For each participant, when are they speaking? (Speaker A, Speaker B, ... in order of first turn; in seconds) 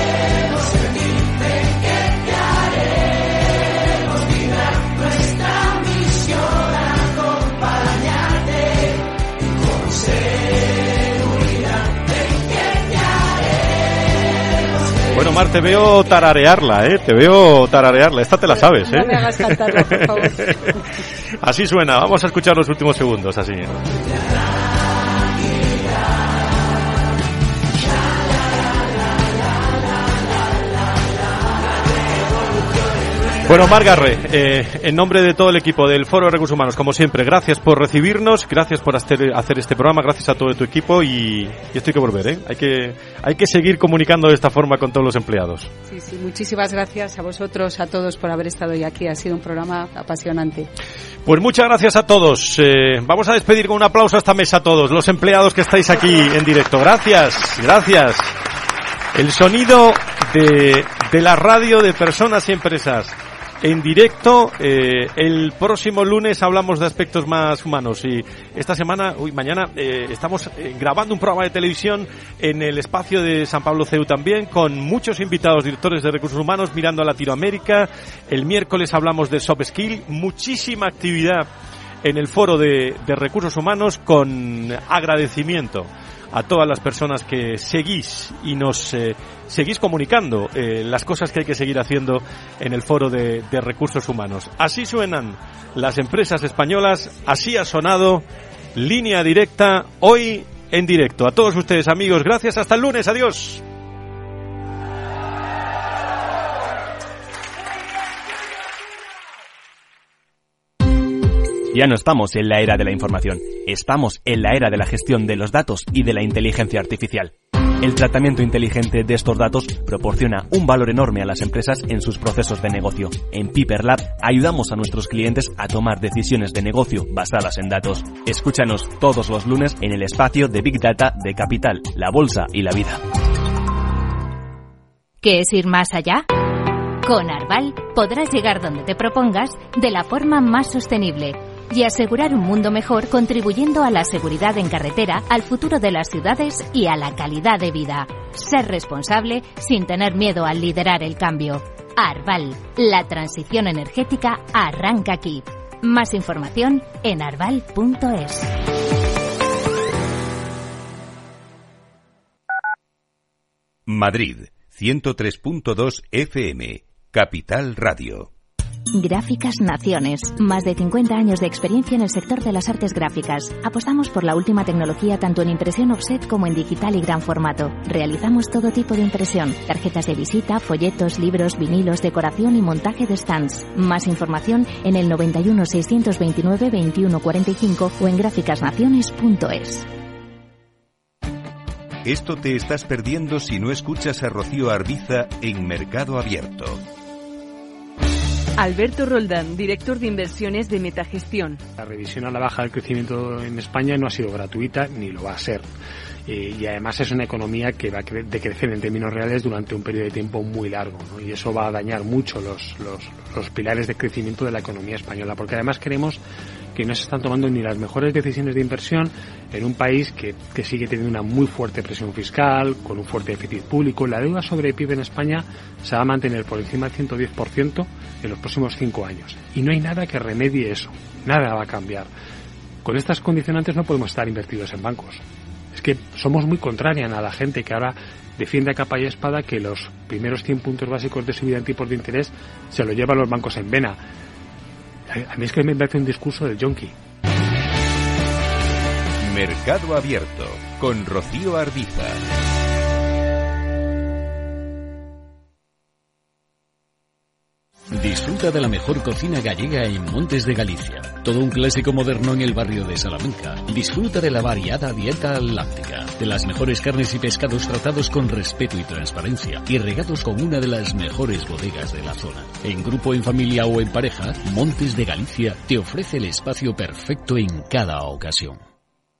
Speaker A: 15.1-20.5, 21.4-23.8, 33.4-45.7, 51.2-58.4, 59.1-81.5, 82.0-98.2, 98.8-103.6
Speaker B: 18.5-20.6, 45.9-50.7
Speaker C: 111.7-133.0
Speaker D: 135.2-136.2, 137.0-158.5, 168.9-189.8
Speaker E: 163.8-168.3, 192.0-196.8, 249.2-252.2
Speaker F: 198.6-201.6
Speaker G: 201.8-205.7, 206.2-216.2, 216.7-232.1, 232.8-235.2, 235.7-244.0, 245.1-246.9
Speaker H: 257.9-278.6